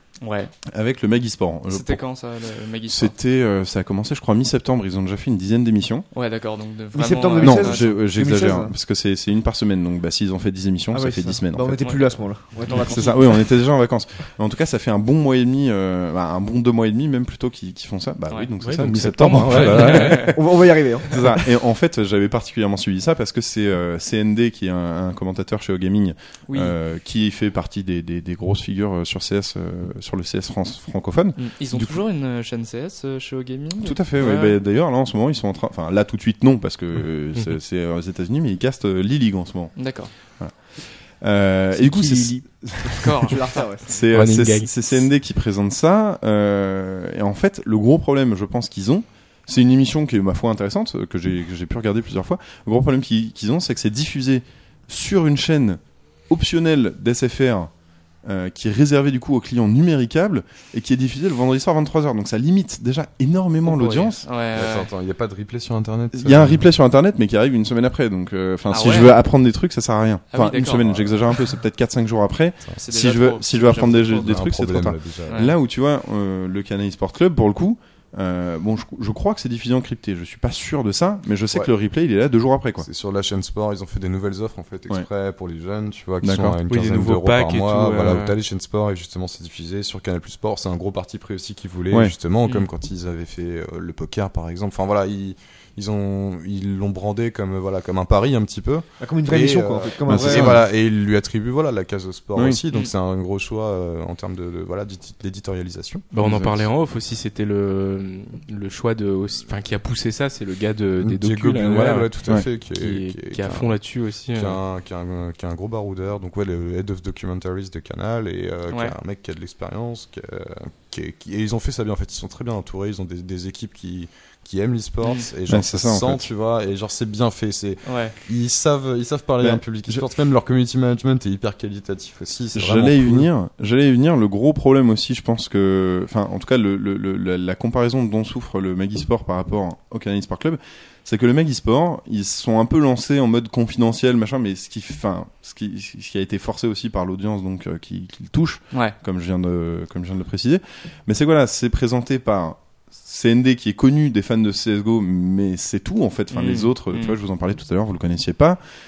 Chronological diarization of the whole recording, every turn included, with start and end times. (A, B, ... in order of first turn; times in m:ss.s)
0:00.2-0:00.5 A
0:00.7-0:02.0 B
0:01.7-0:03.1 A
0:02.9-0:06.1 B
0:06.1-0:08.0 A
0:06.9-0:08.7 C
0:07.4-0:11.8 B
0:10.9-0:13.2 C
0:12.7-0:13.2 A
0:12.7-0:32.0 B
0:18.6-0:20.3 D
0:19.5-0:20.3 A
0:19.7-0:21.4 C
0:26.5-0:26.7 A
0:31.4-0:34.6 A
0:33.8-0:39.8 B
0:39.8-0:40.1 A
0:40.3-0:57.7 B
0:41.7-0:44.0 C
0:42.9-0:43.4 A
0:44.1-0:44.7 D
0:58.2-1:04.3 B
1:03.7-1:04.9 A
1:04.5-1:06.6 E
1:06.1-1:22.9 B
1:08.7-1:09.2 A
1:10.3-1:11.1 A
1:12.8-1:14.4 A
1:13.9-1:15.4 E
1:15.3-1:15.5 A
1:22.8-1:46.1 E
1:26.2-1:26.6 B
1:26.7-1:28.3 D
1:39.0-1:40.6 C
1:40.1-1:40.6 B
1:42.3-1:42.6 B
1:46.1-1:54.6 D
1:46.1-1:46.7 B
1:51.0-1:53.7 E
1:54.3-2:13.3 E
1:58.7-1:59.0 A
2:05.5-2:06.3 B
2:07.8-2:08.1 A
2:09.4-2:10.0 B
2:12.5-2:38.6 B
2:36.3-2:37.2 A